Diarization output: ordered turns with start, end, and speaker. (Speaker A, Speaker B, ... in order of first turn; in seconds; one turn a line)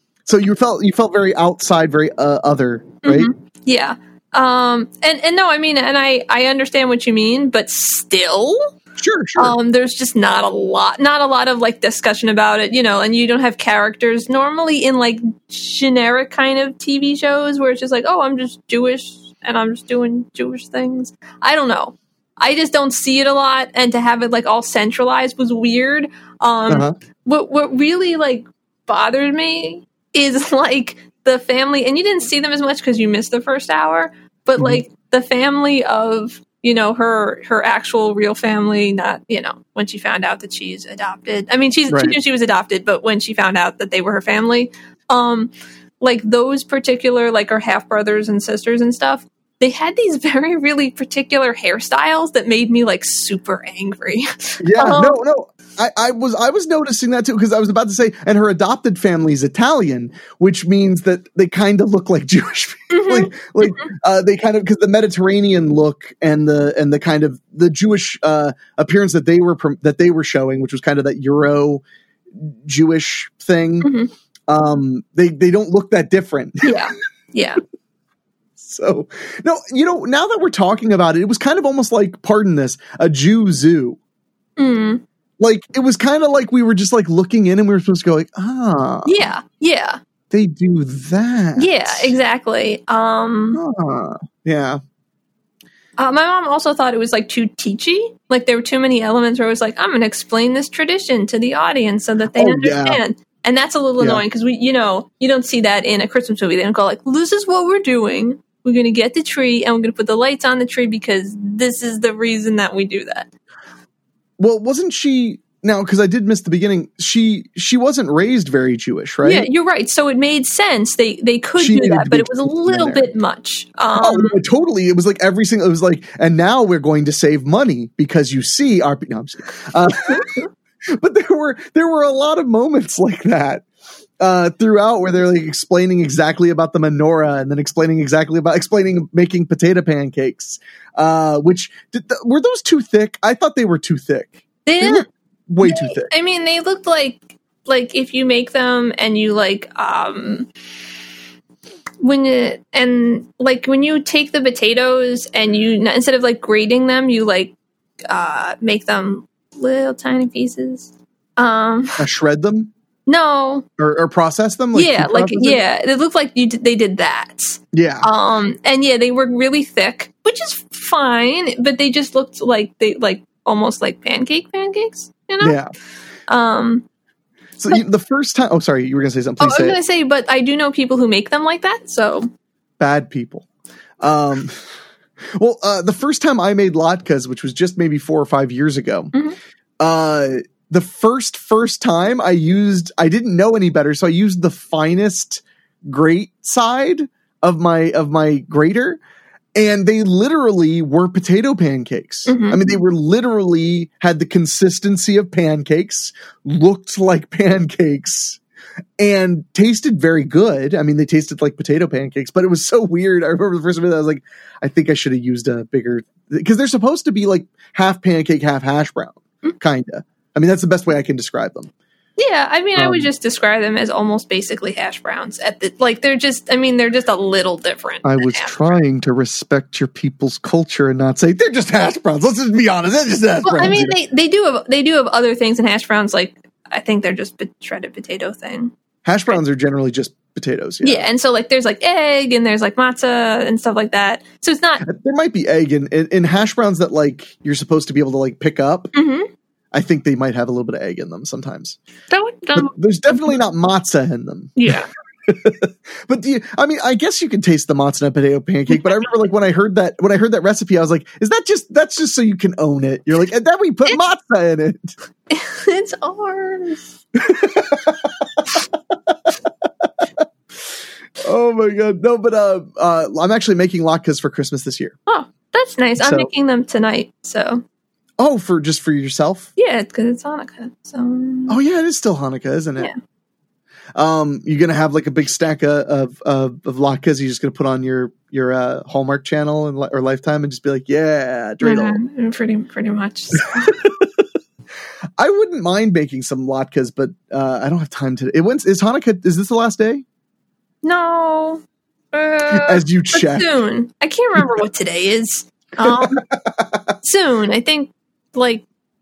Speaker A: 0.3-3.3
Speaker B: 3.0-8.7
Speaker A: 9.0-9.6
Speaker B: 9.4-55.2
Speaker A: 26.7-26.9
Speaker A: 34.6-34.8
Speaker A: 41.9-42.2
Speaker A: 54.6-71.8
Speaker B: 62.9-63.9
Speaker A: 72.4-73.9
Speaker B: 73.8-74.1
Speaker A: 74.5-76.8
Speaker B: 76.6-77.6
Speaker A: 78.6-84.0
Speaker B: 84.6-85.0
Speaker A: 85.4-89.3
Speaker B: 89.0-90.0
Speaker A: 90.3-92.2
Speaker B: 91.6-93.6
Speaker A: 93.5-94.8
Speaker B: 96.0-113.3
Speaker A: 102.4-103.0
Speaker A: 114.4-119.5
Speaker B: 119.2-124.4
Speaker A: 121.6-123.1
Speaker A: 124.0-133.7
Speaker A: 134.2-146.1
Speaker B: 144.7-145.1
Speaker B: 145.6-150.5
Speaker B: 152.0-157.5
Speaker B: 158.1-162.1
Speaker A: 162.0-162.7
Speaker B: 163.1-163.7
Speaker A: 163.8-165.6
Speaker B: 164.8-175.6
Speaker A: 167.7-168.1
Speaker A: 175.4-175.7
Speaker B: 176.3-176.8
Speaker A: 177.6-179.8
Speaker B: 179.4-182.3
Speaker A: 182.8-183.5
Speaker A: 184.0-184.7
Speaker A: 185.3-189.1
Speaker A: 189.8-199.0
Speaker A: 199.6-208.4
Speaker B: 202.3-202.7
Speaker A: 209.0-221.7
Speaker B: 222.2-228.5
Speaker A: 222.8-223.1
Speaker A: 228.0-234.0
Speaker B: 233.4-238.7
Speaker A: 239.1-241.1
Speaker B: 240.8-244.8
Speaker A: 244.8-248.9
Speaker B: 248.9-249.3
Speaker A: 249.7-251.8
Speaker B: 252.1-253.3
Speaker A: 252.6-254.6
Speaker B: 254.6-254.9
Speaker A: 255.3-264.9
Speaker B: 265.3-267.0
Speaker A: 267.2-268.4
Speaker A: 271.2-275.0
Speaker B: 275.1-277.6
Speaker A: 276.0-276.3
Speaker A: 278.2-279.5
Speaker B: 279.6-281.6
Speaker A: 281.5-282.9
Speaker A: 284.0-292.0
Speaker B: 291.6-293.8
Speaker A: 293.6-294.1
Speaker A: 295.2-300.0
Speaker B: 300.8-306.3
Speaker A: 302.5-303.5
Speaker A: 305.8-306.8
Speaker B: 307.0-308.6